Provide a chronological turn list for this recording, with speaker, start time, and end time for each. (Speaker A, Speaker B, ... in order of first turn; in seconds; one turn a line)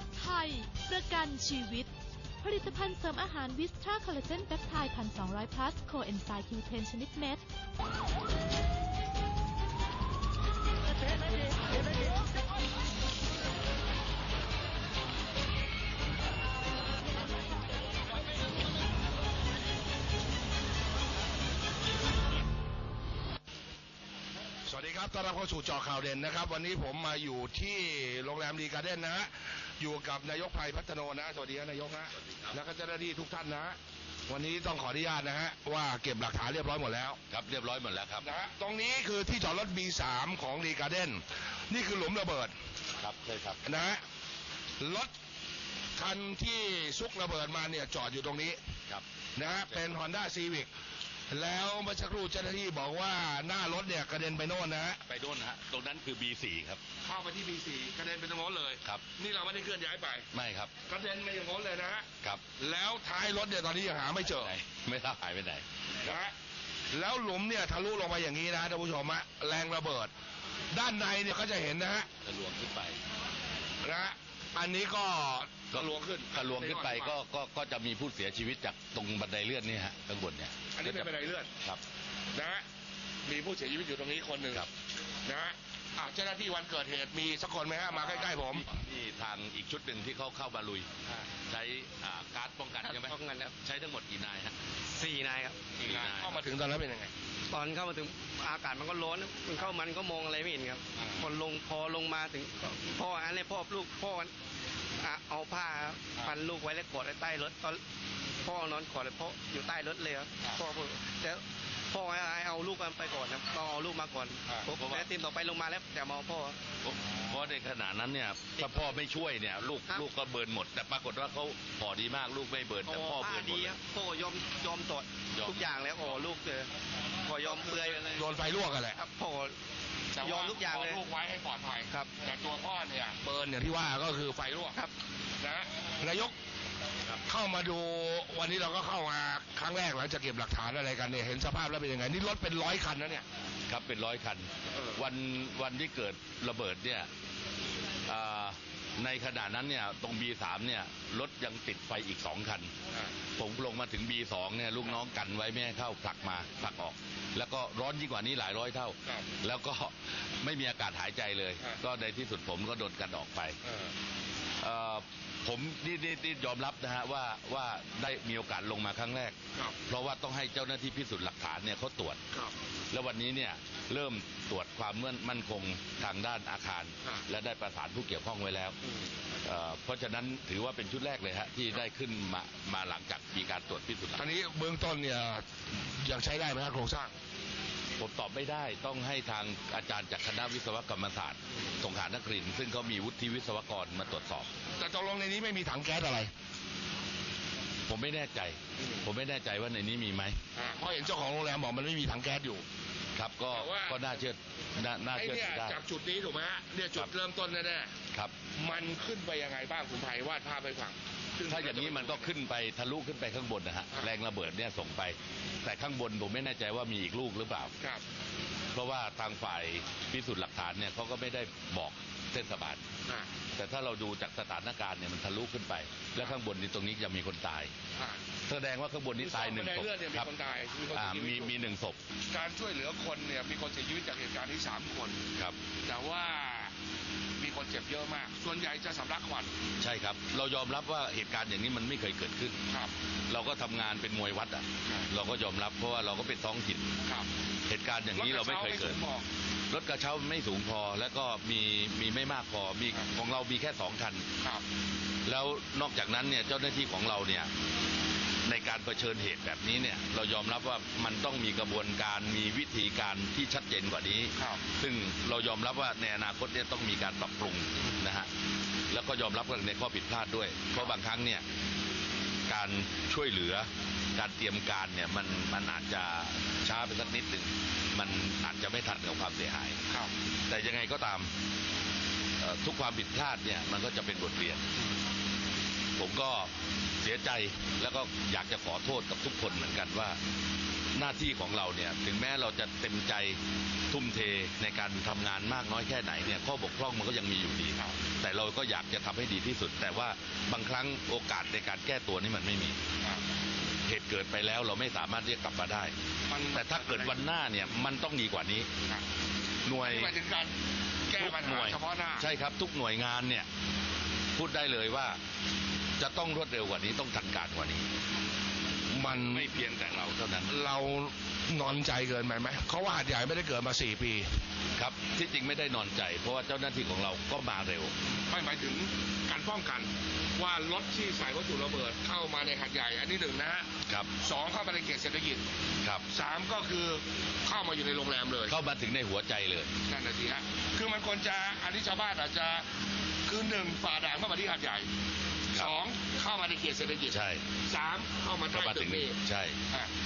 Speaker A: 0.2-1.9
Speaker A: 2.4-7.4
Speaker B: 24.7-37.2
Speaker C: 32.1-32.6
Speaker C: 37.3-38.3
Speaker B: 38.2-42.5
Speaker C: 43.0-43.6
Speaker B: 43.6-44.0
Speaker B: 44.8-45.1
Speaker B: 46.0-48.6
Speaker B: 49.4-50.7
Speaker B: 51.3-55.0
Speaker C: 55.1-56.8
Speaker B: 57.0-60.3
Speaker C: 60.3-60.7
Speaker B: 60.8-64.5
Speaker C: 64.2-66.2
Speaker B: 66.0-66.3
Speaker B: 66.9-70.1
Speaker B: 70.7-72.1
Speaker C: 72.2-73.0
Speaker B: 73.8-77.2
Speaker C: 75.7-81.8
Speaker B: 80.7-81.5
Speaker B: 82.3-82.6
Speaker B: 83.3-84.7
Speaker B: 85.3-88.7
Speaker C: 88.0-90.9
Speaker C: 91.5-94.6
Speaker D: 92.8-93.5
Speaker D: 95.0-95.7
Speaker C: 95.8-96.4
Speaker B: 95.8-97.1
Speaker D: 97.5-104.3
Speaker D: 105.0-107.8
Speaker D: 108.4-116.6
Speaker C: 114.8-115.1
Speaker C: 116.8-123.8
Speaker D: 118.6-119.0
Speaker D: 122.8-126.7
Speaker C: 125.3-126.2
Speaker D: 127.2-128.3
Speaker B: 128.1-129.0
Speaker D: 128.9-129.6
Speaker B: 130.2-134.8
Speaker D: 130.2-131.0
Speaker D: 131.9-132.1
Speaker B: 135.4-136.3
Speaker B: 137.3-143.3
Speaker C: 143.7-147.1
Speaker B: 144.7-145.1
Speaker C: 148.1-152.7
Speaker C: 153.4-163.6
Speaker B: 163.6-163.9
Speaker C: 164.6-169.4
Speaker C: 169.9-172.2
Speaker C: 172.9-178.8
Speaker B: 178.8-179.1
Speaker C: 179.4-184.3
Speaker B: 184.2-187.1
Speaker C: 188.0-194.5
Speaker B: 194.8-196.3
Speaker C: 197.9-200.4
Speaker B: 198.8-199.1
Speaker B: 200.6-202.7
Speaker C: 203.2-205.8
Speaker B: 203.5-204.1
Speaker B: 205.1-207.9
Speaker B: 208.6-212.3
Speaker C: 211.5-217.7
Speaker C: 218.7-222.8
Speaker C: 223.6-227.7
Speaker B: 228.0-228.2
Speaker C: 228.5-230.3
Speaker B: 229.2-231.6
Speaker C: 230.9-232.0
Speaker B: 232.3-235.2
Speaker B: 235.9-236.7
Speaker B: 237.4-239.5
Speaker C: 239.8-242.6
Speaker C: 243.3-246.9
Speaker B: 247.0-247.3
Speaker C: 247.7-249.0
Speaker B: 248.1-249.3
Speaker C: 249.7-254.3
Speaker C: 255.3-257.5
Speaker C: 258.5-268.3
Speaker B: 264.4-264.6
Speaker B: 267.8-268.0
Speaker C: 268.9-271.4
Speaker B: 270.7-271.0
Speaker C: 272.5-279.8
Speaker C: 280.5-281.3
Speaker C: 282.4-284.7
Speaker C: 286.0-290.2
Speaker C: 290.9-293.4
Speaker C: 293.9-302.8
Speaker C: 303.9-305.9
Speaker B: 306.3-307.2
Speaker C: 306.5-308.7
Speaker C: 309.7-310.1
Speaker B: 309.8-310.6
Speaker B: 311.1-312.3
Speaker C: 311.1-313.5
Speaker C: 314.4-315.2
Speaker C: 316.0-317.9
Speaker B: 318.9-319.5
Speaker C: 319.0-320.6
Speaker B: 320.5-324.3
Speaker C: 324.8-327.9
Speaker B: 328.3-335.4
Speaker B: 336.1-338.6
Speaker C: 338.5-339.7
Speaker B: 339.9-342.7
Speaker B: 343.3-344.9
Speaker B: 345.6-349.2
Speaker C: 347.1-347.5
Speaker C: 348.5-349.6